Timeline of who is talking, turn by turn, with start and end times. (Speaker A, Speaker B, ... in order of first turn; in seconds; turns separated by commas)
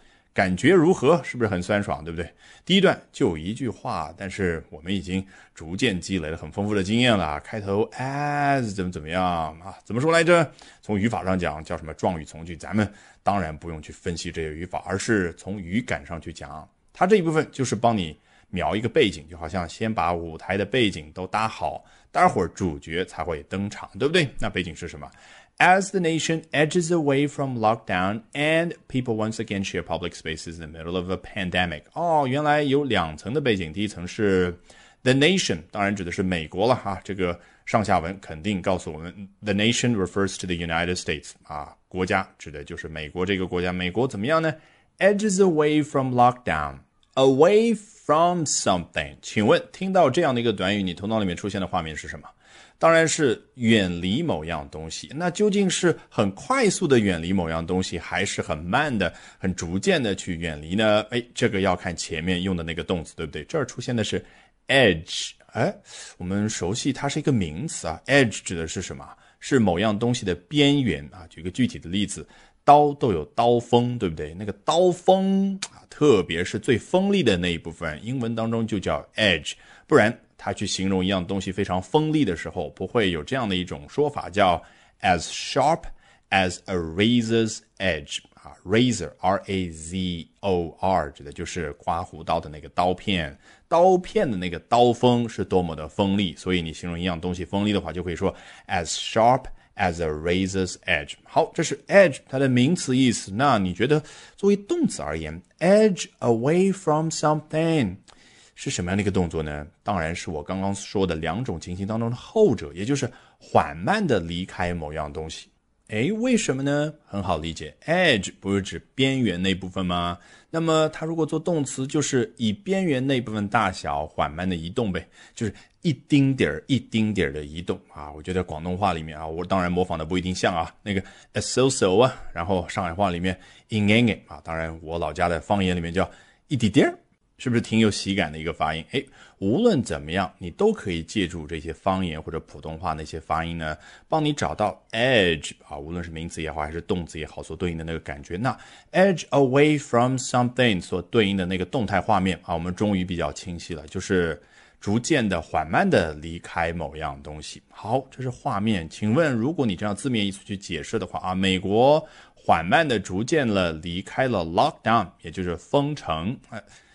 Speaker A: 0.3-108.0, Speaker A: 108.6-166.6